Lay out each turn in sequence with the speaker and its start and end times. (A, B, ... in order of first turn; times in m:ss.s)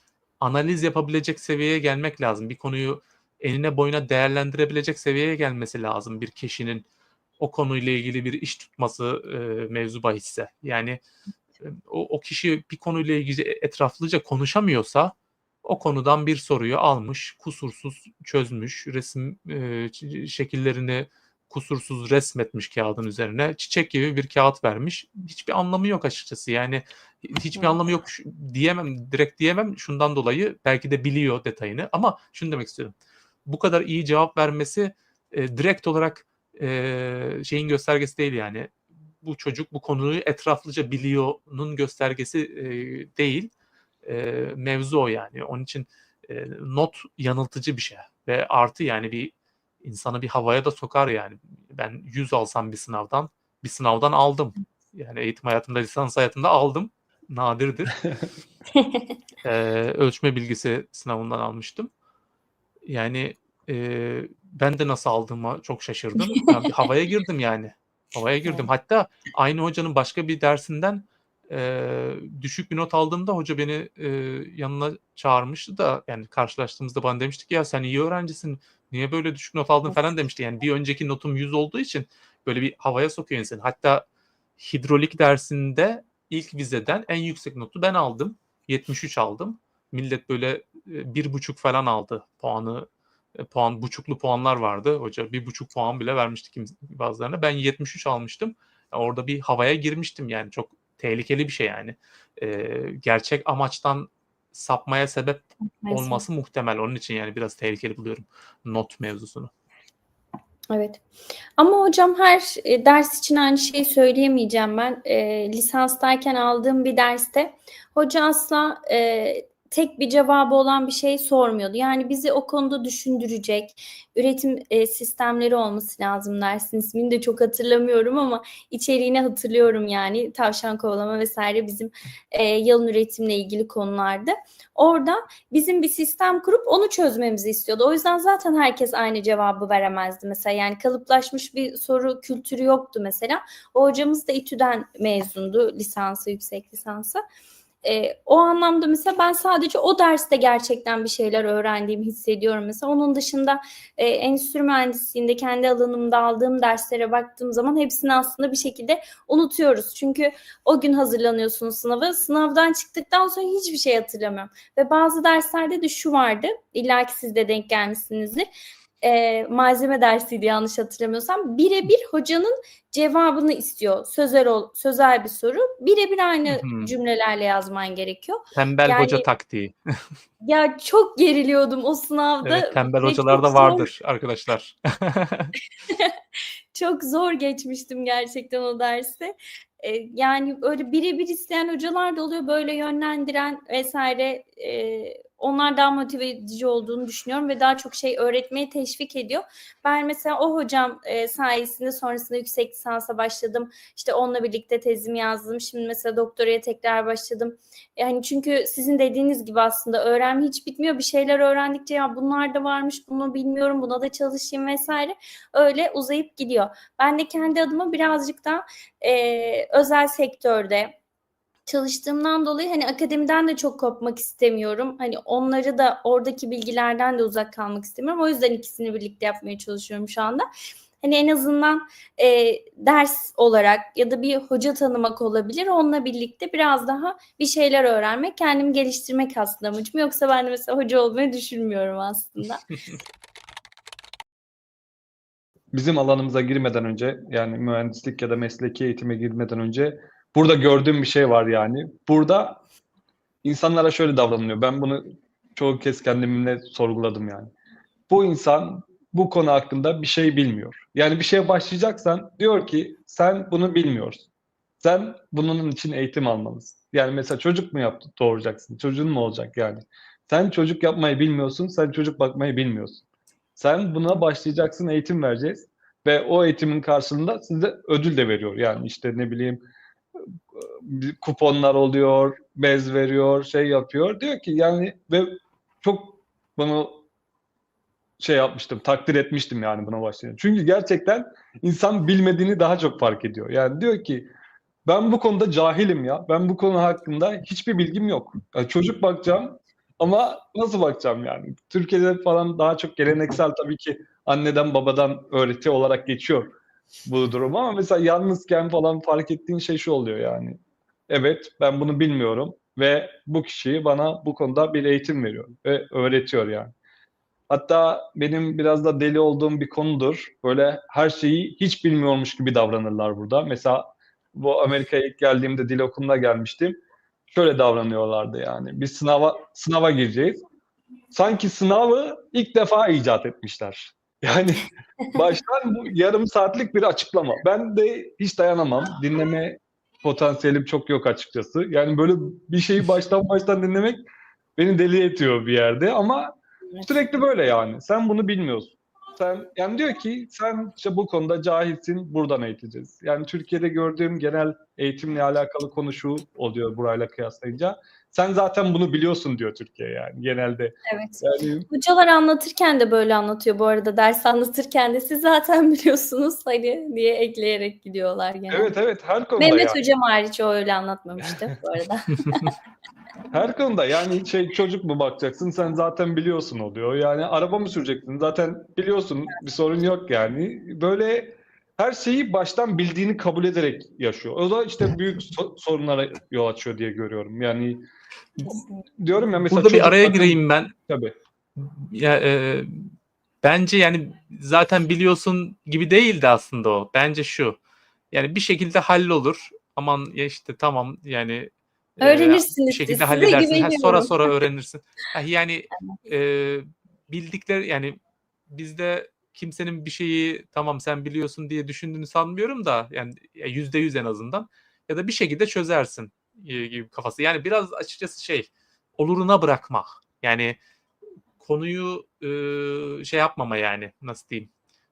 0:00.4-0:06.8 A
0:07.4-0:11.0 A
0:11.6-0:32.9 A
0:27.5-0:27.8 B
0:33.4-0:43.5 A
0:44.0-0:58.0 A
0:58.7-0:59.1 B
0:59.4-1:01.9 A
1:02.9-1:24.0 A
1:24.6-1:49.5 A
1:45.7-1:46.2 B
1:50.7-1:51.0 B
1:51.6-2:27.2 B
2:27.8-2:48.4 B
2:49.0-2:59.3 B
2:56.5-2:56.9 A
2:58.5-2:59.8 A
3:00.4-3:03.9 B
3:02.4-3:05.5 A
3:06.7-3:41.0 B
3:41.6-3:50.4 B
3:51.0-4:02.7 B
4:05.7-4:12.6 C
4:13.4-4:17.5 C
4:18.1-4:24.3 C
4:24.8-4:33.0 C
4:33.6-4:39.6 C
4:40.5-4:47.0 C
4:48.2-4:54.3 C
4:54.8-5:16.7 C
5:17.5-5:26.8 C
5:27.3-5:30.4 C
5:31.1-5:44.0 C
5:44.6-6:01.7 C
6:00.9-6:08.7 B
6:08.5-6:09.8 C
6:09.4-6:12.5 B
6:13.3-6:27.8 C
6:28.4-6:28.8 B
6:28.4-6:31.1 C
6:29.4-6:30.7 A
6:31.6-6:32.9 A
6:33.4-6:37.6 A
6:38.1-7:00.6 A
6:42.0-6:44.2 B
6:45.7-6:46.0 B
7:01.4-7:04.5 A